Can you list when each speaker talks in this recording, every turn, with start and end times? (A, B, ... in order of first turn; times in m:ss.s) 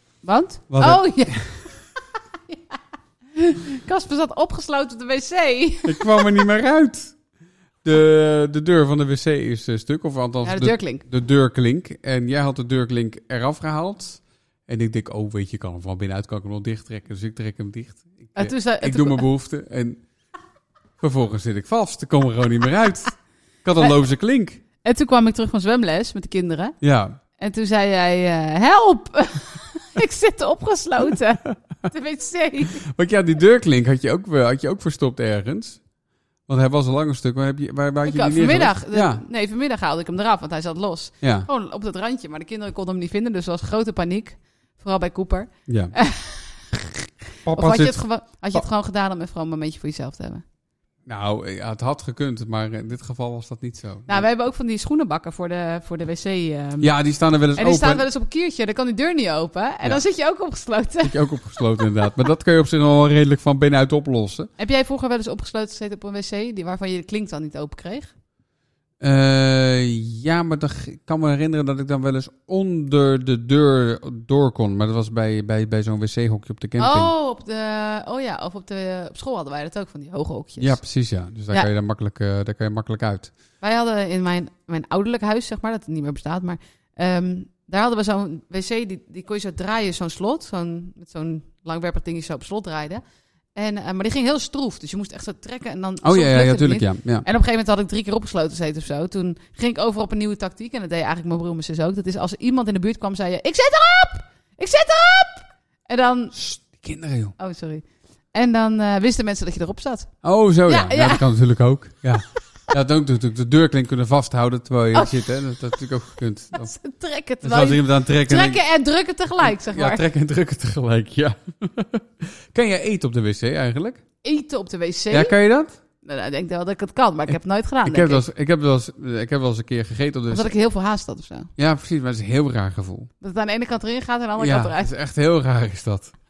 0:00.2-0:02.7 A
0:00.7-0:01.6 B
0:03.4-0:06.5 A
0:05.9-0:07.2 B
0:07.8-0:20.0 B
0:10.4-0:11.0 A
0:18.4-0:19.3 A
0:21.0-0:24.6 B
0:24.8-0:26.8 A
0:26.8-0:27.2 B
0:27.4-0:32.8 A
0:32.8-0:35.8 B
0:36.5-0:39.2 B
0:38.0-0:50.4 A
0:41.2-0:41.5 B
0:45.7-0:45.9 B
0:47.5-0:48.0 B
0:51.1-0:54.3 B
0:54.1-0:56.9 A
0:56.8-0:58.0 B
0:57.6-1:02.1 A
1:01.0-1:04.5 B
1:04.6-1:08.1 A
1:09.0-1:17.1 B
1:16.8-1:20.8 A
1:20.6-1:23.3 B
1:23.6-1:33.0 A
1:33.6-1:46.3 A
1:36.0-1:37.3 B
1:46.3-1:47.4 B
1:47.4-1:50.1 A
1:50.2-1:56.7 B
1:50.7-1:51.3 A
1:54.9-1:55.9 A
1:56.5-2:00.0 A
1:57.4-1:58.6 B
1:59.4-2:04.0 B
2:04.2-2:05.3 A
2:05.1-2:05.8 B
2:06.0-2:08.2 A
2:07.9-2:10.6 B
2:10.3-2:11.5 A
2:11.6-2:13.1 B
2:13.2-2:14.9 A
2:14.4-2:16.1 B